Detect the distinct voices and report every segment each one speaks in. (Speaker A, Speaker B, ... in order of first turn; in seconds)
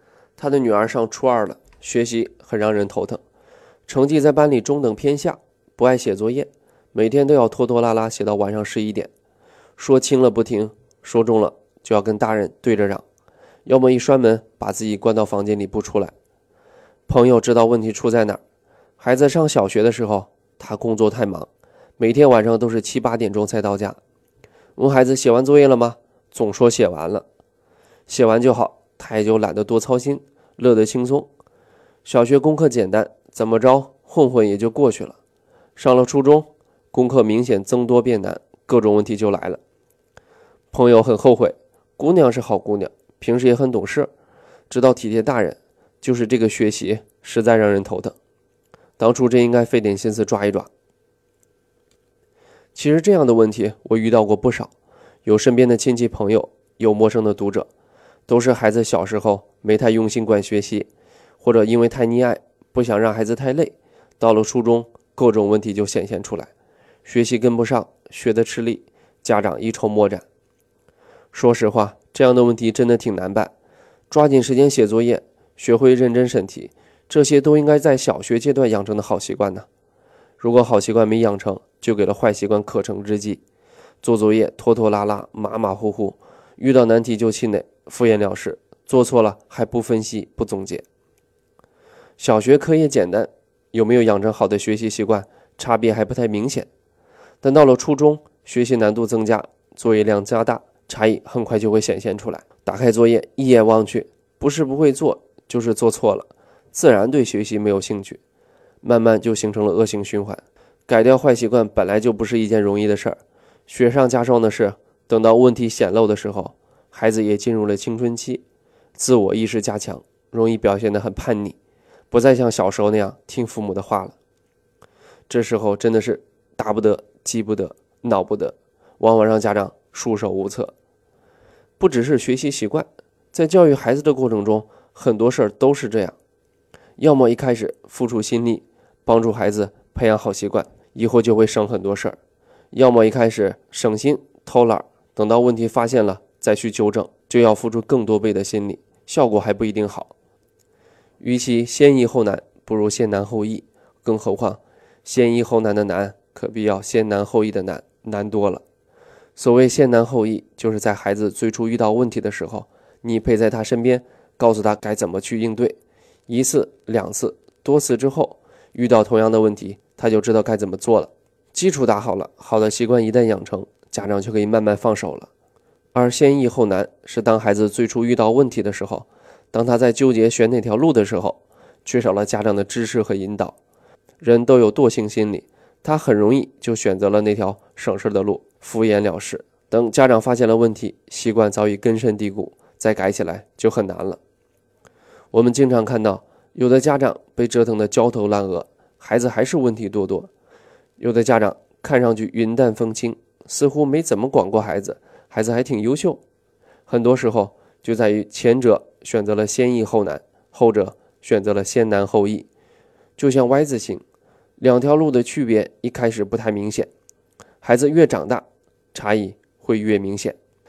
Speaker A: 0.4-3.2, 3.9-9.1, 9.8-13.0, 13.7-16.1, 17.1-18.4, 19.0-24.0, 24.8-27.2, 28.1-31.3, 32.0-35.2, 35.8-39.6, 40.7-44.1, 44.7-48.1, 49.0-50.7, 52.7-54.7, 55.2-57.7, 58.3-60.9, 61.4-66.5, 67.0-70.2, 71.3-73.5, 74.1-79.7, 80.4-83.4, 84.0-90.8, 92.2-96.7, 97.4-108.2, 108.8-118.4, 119.0-121.6, 122.1-124.2, 125.3-130.7, 131.8-136.2, 137.0-142.2, 142.7-150.1, 151.2-158.6, 159.4-165.8, 166.3-175.3, 175.9-183.5, 184.2-194.2, 195.3-200.3, 201.0-206.2, 206.9-212.5, 213.2-214.0, 214.6-216.9, 217.6-220.3